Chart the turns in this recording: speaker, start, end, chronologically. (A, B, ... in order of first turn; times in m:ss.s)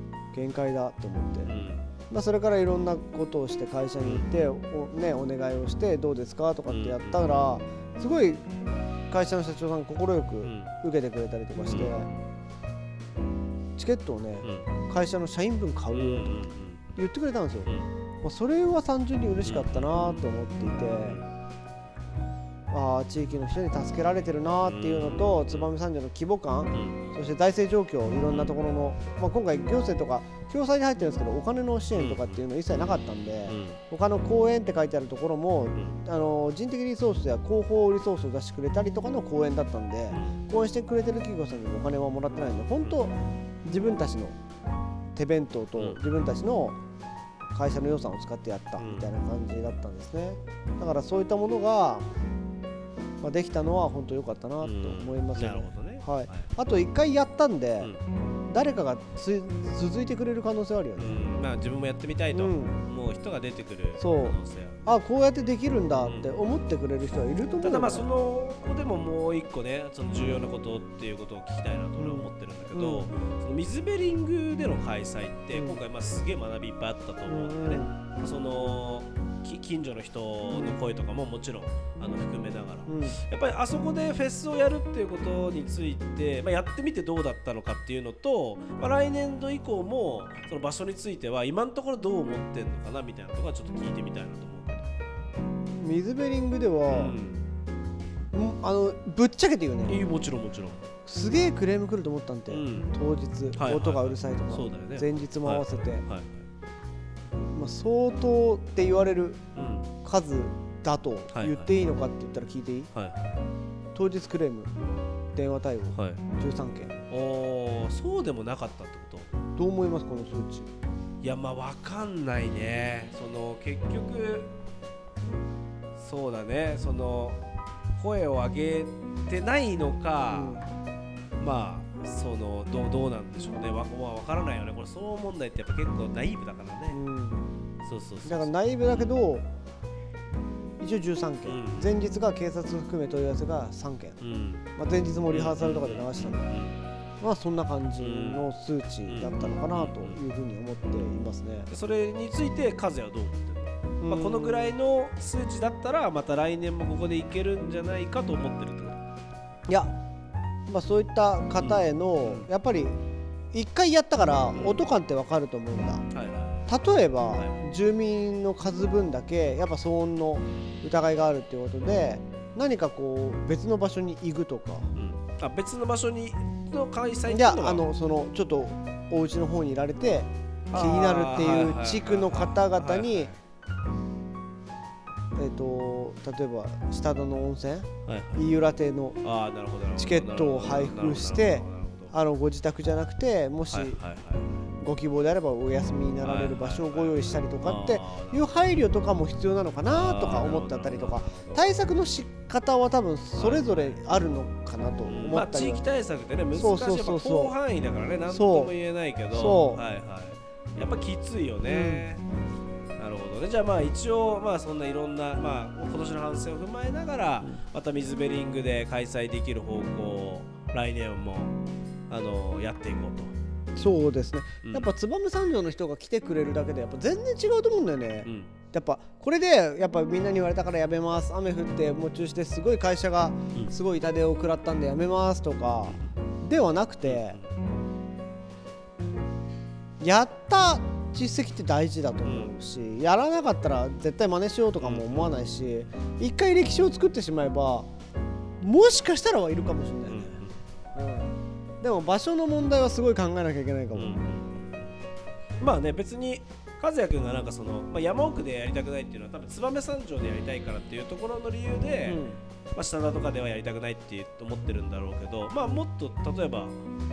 0:00.3-0:01.5 A
0:01.4-0:01.9 B
0:02.1-0:08.4 A
0:04.0-0:04.4 B
0:06.7-0:07.3 B
0:09.1-0:12.1 A
0:10.4-0:10.7 B
0:11.7-0:12.2 B
0:13.8-0:16.3 A
0:14.4-0:14.7 B
0:15.9-0:16.8 B
0:17.0-0:17.7 A
0:18.2-0:21.2 A
0:19.4-0:20.2 B
0:22.7-0:44.3 A
0:24.6-0:25.7 B
0:26.7-0:27.0 B
0:28.3-0:28.5 B
0:32.0-0:32.4 B
0:33.5-0:33.8 B
0:35.7-0:36.0 B
0:40.1-0:40.4 B
0:45.1-0:46.8 A
0:47.5-0:52.1 A
0:48.8-0:49.1 B
0:53.2-0:57.9 A
0:54.6-0:56.5 B
0:58.5-1:01.2 A
1:01.0-1:04.9 B
1:02.3-1:02.7 A
1:04.0-1:08.1 A
1:06.0-1:06.4 B
1:07.6-1:35.0 B
1:12.0-1:13.1 A
1:15.5-1:15.8 A
1:17.2-1:17.9 A
1:20.5-1:20.8 A
1:22.9-1:23.2 A
1:35.8-1:37.2 A
1:36.9-1:37.4 B
1:38.3-1:40.0 A
1:39.9-1:40.9 B
1:41.0-1:46.0 A
1:42.5-1:42.9 B
1:43.5-1:46.4 B
1:47.5-1:49.4 A
1:49.5-1:49.9 B
1:50.0-1:52.9 A
1:51.3-1:51.7 B
1:52.9-1:53.4 B
1:53.9-1:54.7 A
1:55.3-1:56.9 A
1:55.9-1:56.2 B
1:57.1-1:59.3 B
1:59.6-2:00.7 A
2:01.2-2:04.5 B
2:06.0-2:07.4 B
2:08.0-2:10.6 B
2:10.3-2:10.6 A
2:11.4-2:17.0 B
2:16.9-2:17.4 A
2:17.8-2:18.5 B
2:18.2-2:19.4 A
2:20.8-2:24.2 A
2:21.4-2:22.0 B
2:24.2-2:24.6 B
2:24.8-2:26.5 A
2:25.3-2:26.8 B
2:27.2-2:31.7 A
2:28.0-2:28.5 B
2:29.1-2:30.2 B
2:31.7-2:39.0 B
2:34.0-2:34.8 A
2:39.7-2:39.9 A
2:40.7-2:43.0 A
2:41.6-2:42.5 B
2:43.5-2:46.0 A
2:44.5-2:44.8 B
2:46.1-2:46.6 B
2:46.7-2:54.9 A
2:47.3-2:47.6 B
2:54.9-2:57.8 B
2:57.3-3:03.3 A
3:00.7-3:03.4 B
3:05.4-3:09.2 A
3:08.0-3:08.5 B
3:09.2-3:12.1 B
3:10.0-3:14.0 A
3:13.7-3:14.7 B
3:14.8-3:25.8 A
3:16.2-3:18.5 B
3:19.9-3:21.6 B
3:23.4-3:24.0 B
3:25.1-3:32.2 B
3:26.5-3:27.5 A
3:28.3-3:28.7 A
3:29.3-3:29.8 A
3:31.6-3:32.1 A
3:33.0-3:41.5 B
3:42.1-3:43.3 B
3:43.7-3:57.4 A
3:44.6-3:44.9 B
3:48.2-3:48.5 B
3:55.9-3:56.1 B
3:57.0-3:57.5 B
4:00.0-4:07.9 A
4:02.2-4:02.5 B
4:04.8-4:05.3 B
4:08.6-4:10.4 A
4:10.1-4:10.6 B
4:10.9-4:14.1 A
4:13.9-4:14.9 B
4:15.6-4:22.2 B
4:22.0-4:22.4 A
4:22.7-4:26.8 B